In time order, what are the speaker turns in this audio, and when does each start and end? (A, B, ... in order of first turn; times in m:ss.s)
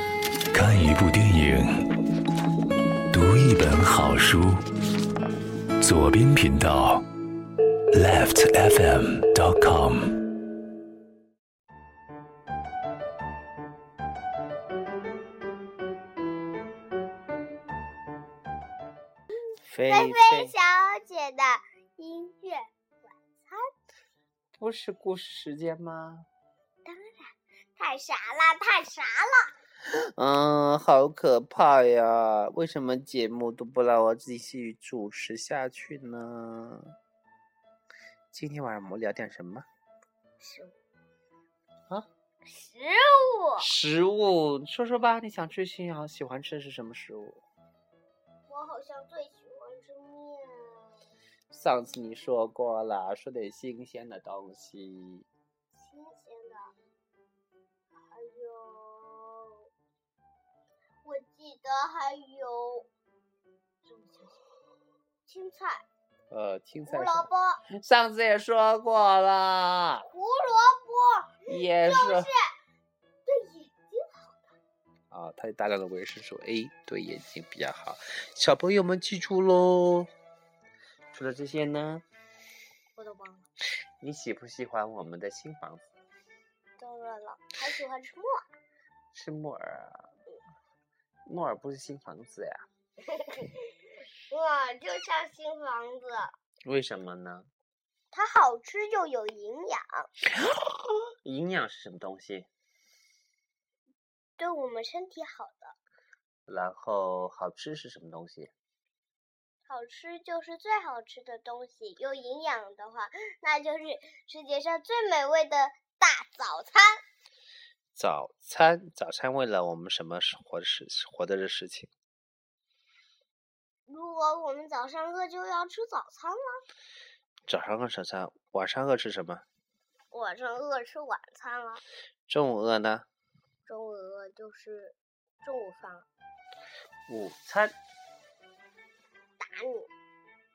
0:00.5-0:01.8 A
0:03.1-0:04.6 A
0:05.8-0:07.0 A
0:07.9-0:10.1 A
0:19.7-0:20.5 B
0:19.9-0:23.6 C
0:24.6-0:26.3 B
0:26.8-0:29.5 C
0:29.9-0:37.0 B
0:38.3-0:39.7 B
0:40.4-0:40.7 C
0:42.4-0:43.7 C
0:43.6-0:47.4 B
0:48.5-0:51.0 C
0:51.5-0:55.2 B
0:55.8-0:56.7 C
0:58.0-0:59.6 C
1:01.0-1:02.9 C
1:03.8-1:04.4 C
1:05.2-1:05.8 C
1:06.3-1:10.1 B
1:06.9-1:07.6 C
1:10.1-1:12.4 C
1:11.5-1:12.3 B
1:13.2-1:14.4 C
1:15.1-1:20.1 B
1:21.1-1:22.0 B
1:23.0-1:23.5 C
1:24.0-1:25.9 B
1:26.8-1:28.4 C
1:29.1-1:30.0 B
1:31.2-1:32.7 B
1:33.2-1:33.7 C
1:34.3-1:36.3 C
1:36.7-1:37.5 B
1:38.1-1:40.1 C
1:41.2-1:42.5 B
1:44.4-1:45.7 C
1:46.5-1:48.5 B
1:49.7-1:57.0 C
1:57.9-2:01.9 B
2:03.9-2:06.6 C
2:07.5-2:09.4 B
2:10.1-2:11.8 C
2:12.3-2:13.0 B
2:13.7-2:16.1 C
2:17.1-2:17.7 B
2:19.4-2:19.9 C